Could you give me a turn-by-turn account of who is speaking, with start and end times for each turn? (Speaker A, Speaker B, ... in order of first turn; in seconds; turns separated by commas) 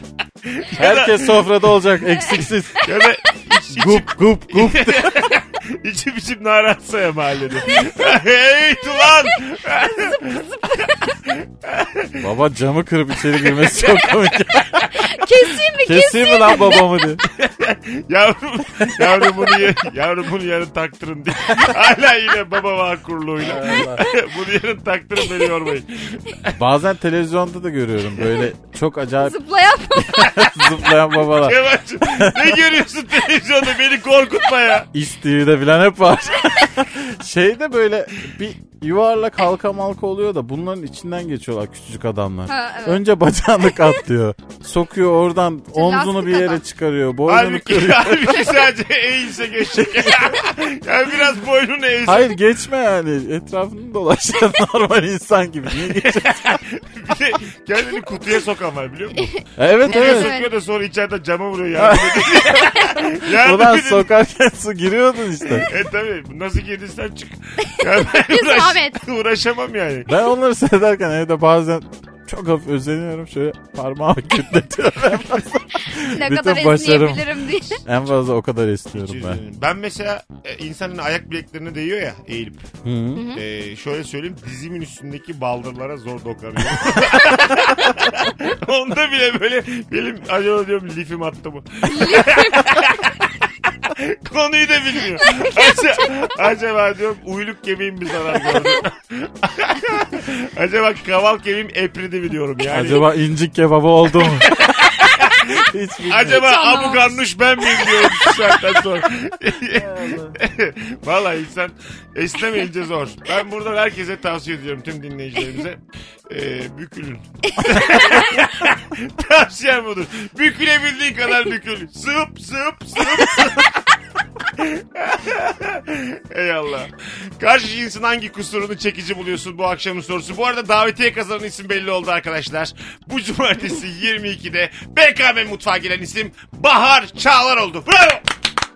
Speaker A: 0.4-1.6, Speaker B: 0.8-2.8, Speaker A: 2.8-10.6, Speaker B: 3.7-5.3, Speaker C: 9.8-11.2, Speaker A: 11.2-12.2, Speaker B: 12.2-14.9, Speaker A: 13.4-14.9, Speaker C: 14.9-16.9, Speaker B: 15.8-17.2, Speaker A: 17.2-26.6, Speaker B: 23.4-24.0, Speaker B: 26.5-29.4, Speaker C: 29.2-30.4, Speaker B: 29.9-32.5, Speaker A: 31.3-34.9, Speaker B: 34.9-48.6, Speaker C: 42.5-43.0, Speaker C: 45.7-46.6, Speaker A: 47.3-52.3, Speaker B: 52.0-56.4, Speaker A: 55.8-64.1, Speaker B: 59.5-60.3, Speaker C: 59.9-60.5, Speaker B: 61.8-65.7, Speaker A: 65.6-70.1, Speaker C: 67.7-69.0, Speaker B: 70.1-79.4, Speaker C: 75.8-77.8, Speaker A: 78.9-82.7, Speaker B: 82.8-83.2, Speaker C: 83.1-83.4, Speaker A: 83.3-103.1, Speaker C: 91.8-92.9, Speaker C: 95.2-96.2, Speaker B: 102.7-104.5, Speaker A: 104.2-123.9, Speaker B: 105.4-106.5, Speaker C: 106.3-108.1, Speaker B: 109.8-110.3, Speaker C: 117.7-118.1, Speaker A: 124.5-138.2